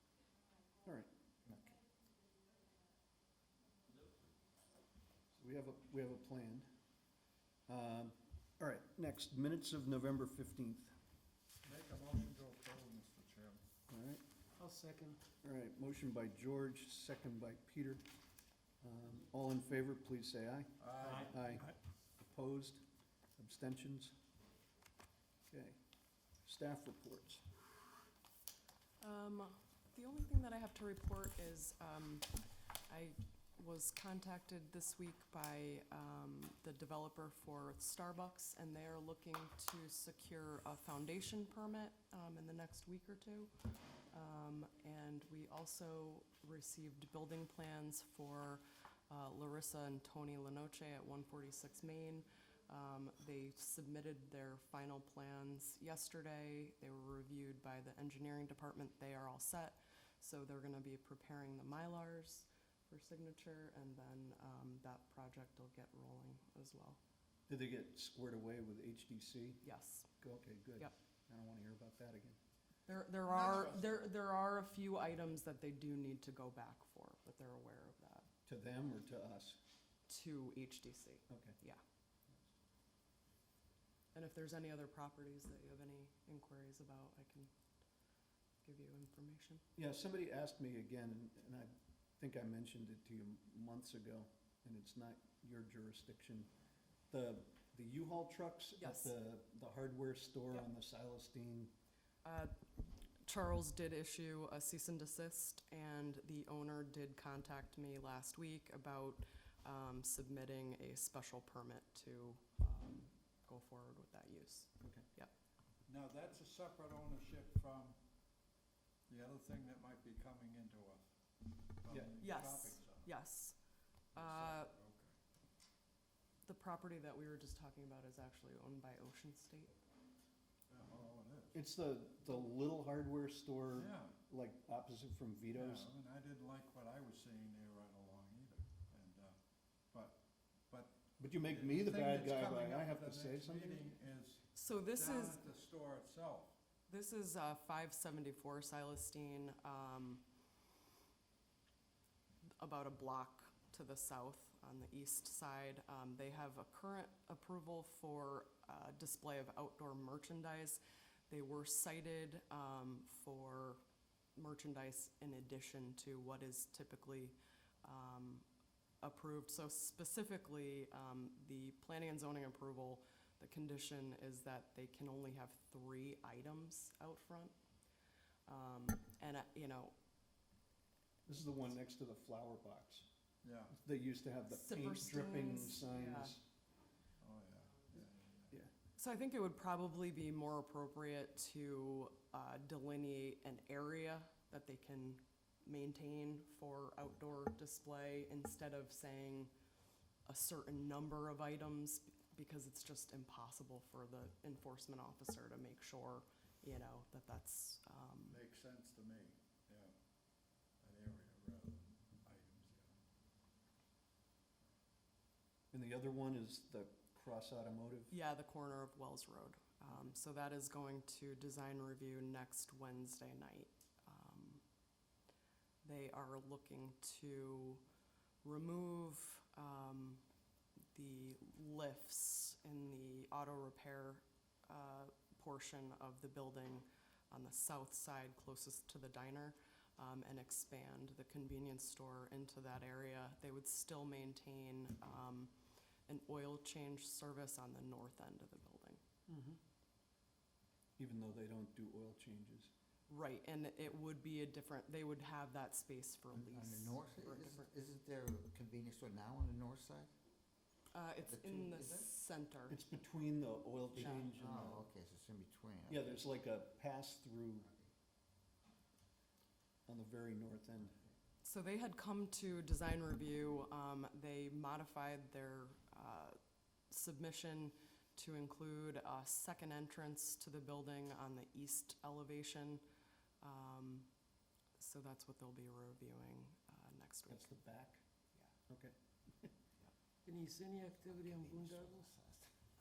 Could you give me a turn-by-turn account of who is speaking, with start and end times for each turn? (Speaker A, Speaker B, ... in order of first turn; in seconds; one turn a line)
Speaker A: 0.8-1.1
Speaker A: 5.3-6.7
Speaker A: 7.7-10.9
Speaker B: 11.6-13.7
Speaker A: 13.9-14.2
Speaker C: 14.6-15.2
Speaker A: 15.4-18.0
Speaker A: 18.8-21.7
Speaker B: 20.8-21.7
Speaker A: 22.2-22.8
Speaker A: 23.4-24.1
Speaker A: 25.5-25.8
Speaker A: 26.4-27.4
Speaker D: 29.0-43.5
Speaker D: 44.1-67.0
Speaker A: 67.5-69.6
Speaker D: 69.6-70.1
Speaker A: 70.2-72.4
Speaker D: 72.9-78.3
Speaker A: 78.5-79.6
Speaker D: 80.1-81.8
Speaker A: 81.3-81.5
Speaker D: 84.1-87.5
Speaker D: 88.6-89.6
Speaker A: 89.8-96.5
Speaker A: 97.1-101.7
Speaker D: 98.8-99.1
Speaker D: 102.2-102.5
Speaker D: 103.2-115.3
Speaker A: 114.8-115.0
Speaker B: 115.9-118.0
Speaker B: 119.1-121.1
Speaker B: 121.8-123.1
Speaker A: 121.9-122.1
Speaker D: 122.2-123.6
Speaker B: 124.1-125.1
Speaker D: 124.2-124.7
Speaker D: 126.4-129.7
Speaker B: 130.7-131.6
Speaker A: 131.5-135.9
Speaker B: 133.7-134.1
Speaker B: 135.5-139.3
Speaker B: 139.9-140.2
Speaker B: 140.7-146.6
Speaker A: 141.2-143.9
Speaker D: 144.5-145.4
Speaker D: 146.9-150.2
Speaker D: 152.6-163.8
Speaker D: 164.3-168.4
Speaker D: 169.0-177.5
Speaker D: 178.5-179.9
Speaker A: 181.3-183.1
Speaker B: 183.4-183.7
Speaker A: 183.7-186.4
Speaker D: 184.5-186.3
Speaker B: 187.2-188.6
Speaker D: 188.9-199.5
Speaker D: 200.2-208.4
Speaker B: 208.3-209.9
Speaker B: 210.8-212.9
Speaker A: 215.7-218.1
Speaker D: 218.1-224.6
Speaker D: 225.8-227.8
Speaker D: 228.4-230.2
Speaker D: 230.9-245.5
Speaker D: 246.1-249.0
Speaker C: 249.3-249.6
Speaker A: 251.0-252.7
Speaker D: 253.1-257.7
Speaker E: 256.3-260.1
Speaker D: 260.9-262.8
Speaker E: 261.2-262.1
Speaker A: 262.7-264.9
Speaker E: 263.9-266.2
Speaker D: 264.0-264.4
Speaker A: 265.9-267.7
Speaker A: 269.9-270.9
Speaker D: 271.4-276.4
Speaker D: 276.9-282.8
Speaker D: 283.4-284.1
Speaker D: 284.8-287.5
Speaker A: 287.3-288.0
Speaker A: 288.7-289.5
Speaker C: 290.2-292.1
Speaker E: 290.9-292.5